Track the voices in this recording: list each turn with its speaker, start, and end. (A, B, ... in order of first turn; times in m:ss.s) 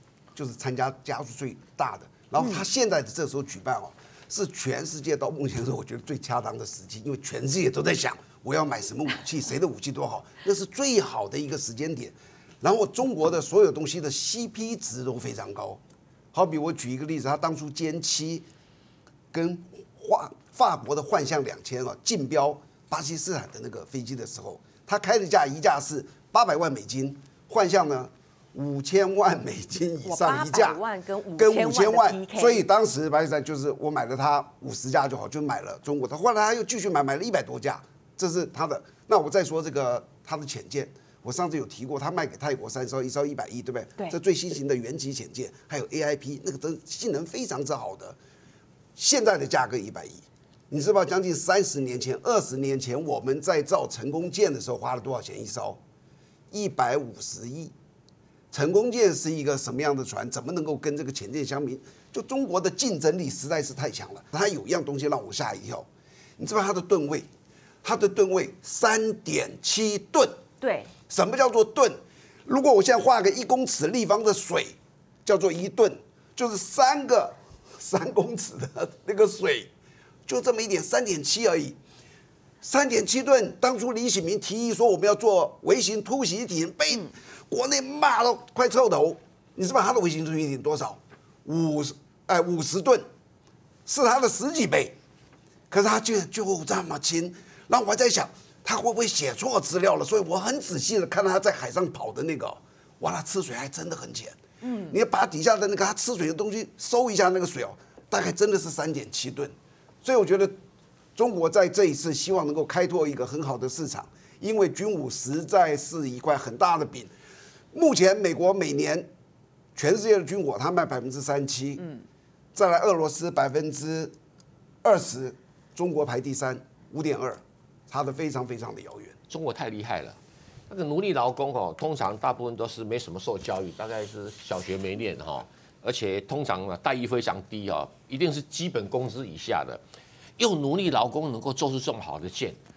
0:00.3-0:15.8 A
0:02.4-0:02.6 B
0:16.3-0:18.5 A
0:19.3-0:30.8 A
0:30.0-0:32.7 B
0:31.4-0:48.2 A
0:49.0-0:55.8 A
0:56.5-0:57.7 A
0:58.5-1:05.9 A
1:06.4-1:07.3 A
1:07.8-1:10.4 A
1:10.6-1:10.9 B
1:11.1-1:19.7 A
1:20.2-1:21.8 A
1:22.6-1:33.0 A
1:33.8-1:35.0 A
1:35.7-1:50.5 A
1:44.6-1:44.9 B
1:51.2-1:57.1 A
1:57.7-1:59.1 A
1:59.8-2:01.9 A
2:02.5-2:04.2 A
2:04.8-2:09.2 A
2:09.3-2:10.2 C
2:10.7-2:19.8 C
2:20.4-2:22.6 C